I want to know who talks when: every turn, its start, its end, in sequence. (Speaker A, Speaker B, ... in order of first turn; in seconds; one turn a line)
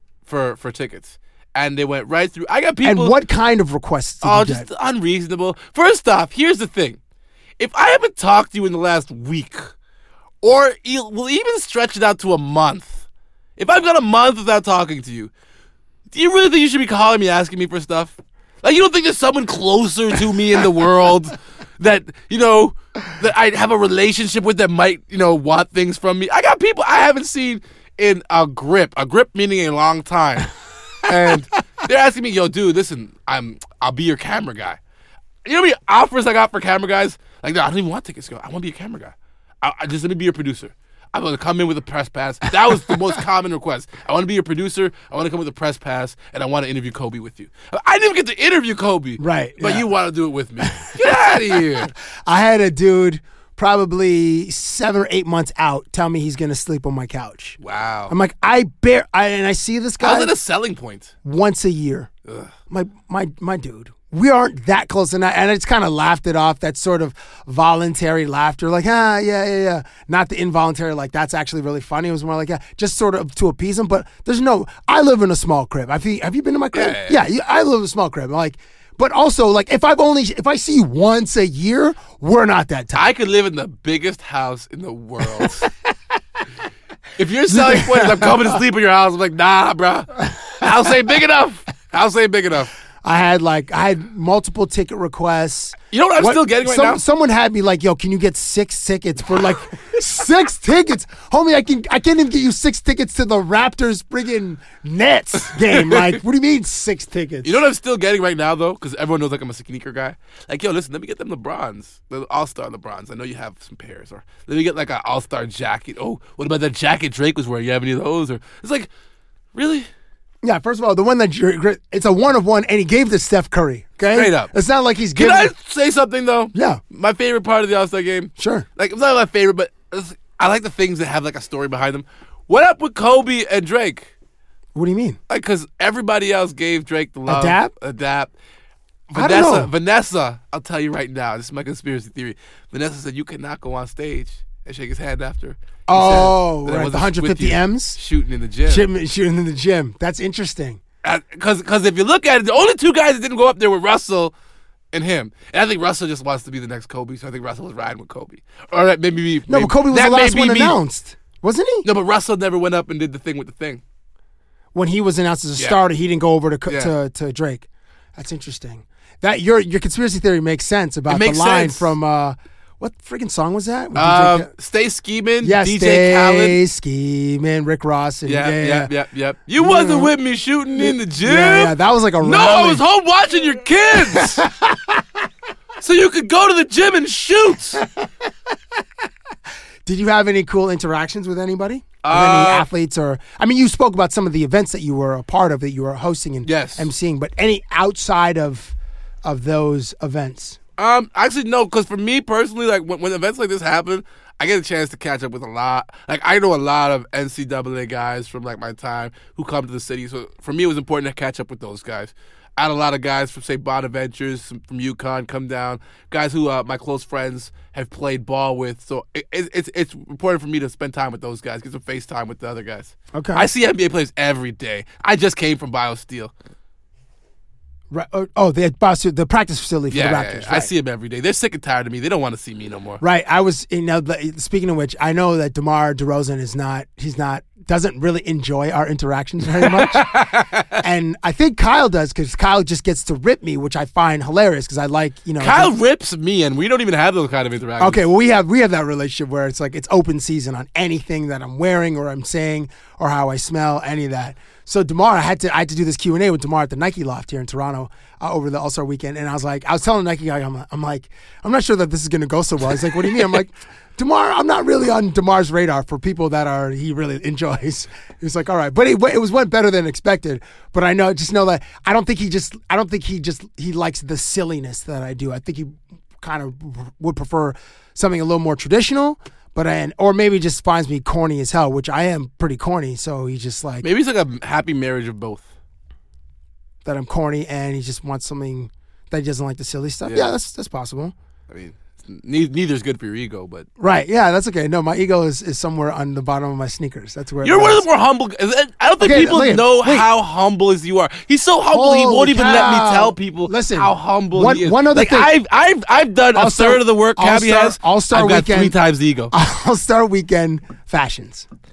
Speaker A: 0.3-3.2
Speaker B: 2.8-4.7
Speaker A: 4.2-7.0
Speaker A: 7.6-9.7
Speaker A: 10.4-13.1
Speaker A: 13.6-15.3
Speaker A: 16.1-30.5
Speaker A: 31.0-34.8
Speaker A: 35.5-51.9
Speaker B: 49.2-49.9
Speaker B: 50.6-60.3
Speaker A: 57.6-58.1
Speaker A: 60.0-61.1
Speaker B: 61.2-62.1
Speaker A: 62.3-62.5
Speaker B: 62.7-83.1
Speaker A: 76.7-77.2
Speaker A: 83.0-85.7
Speaker A: 87.2-92.7
Speaker B: 87.5-88.6
Speaker B: 93.0-107.6
Speaker A: 95.9-97.0
Speaker A: 105.5-106.2
Speaker A: 107.4-118.9
Speaker A: 119.5-119.9
Speaker B: 120.4-125.5
Speaker A: 124.1-124.5
Speaker A: 125.2-134.1
Speaker B: 126.5-126.8
Speaker B: 128.4-128.7
Speaker B: 134.8-135.2
Speaker A: 135.3-138.3
Speaker B: 137.3-137.7
Speaker B: 139.1-139.7
Speaker A: 139.1-148.9
Speaker B: 145.9-148.0
Speaker B: 148.7-150.8
Speaker A: 151.0-154.3
Speaker A: 154.9-160.8
Speaker B: 159.5-161.9
Speaker A: 161.8-163.8
Speaker B: 164.7-174.5
Speaker A: 171.1-171.9
Speaker A: 173.9-176.6
Speaker B: 175.4-178.9
Speaker A: 178.3-184.4
Speaker B: 179.6-180.1
Speaker B: 180.8-182.8
Speaker B: 184.1-185.0
Speaker A: 185.8-187.8
Speaker B: 189.8-200.6
Speaker A: 192.0-192.7
Speaker A: 196.4-196.9
Speaker A: 200.8-226.3
Speaker B: 223.1-223.5
Speaker B: 227.9-230.7
Speaker A: 229.9-233.0
Speaker B: 233.0-240.2
Speaker A: 239.6-240.8
Speaker B: 240.8-245.7
Speaker A: 245.4-248.0
Speaker B: 247.8-283.9
Speaker A: 283.8-285.5
Speaker B: 286.8-291.1
Speaker A: 290.1-290.3
Speaker A: 291.5-293.7
Speaker B: 293.8-297.9
Speaker A: 297.4-309.3
Speaker B: 299.0-300.1
Speaker B: 301.7-305.3
Speaker B: 306.3-308.8
Speaker B: 309.3-311.5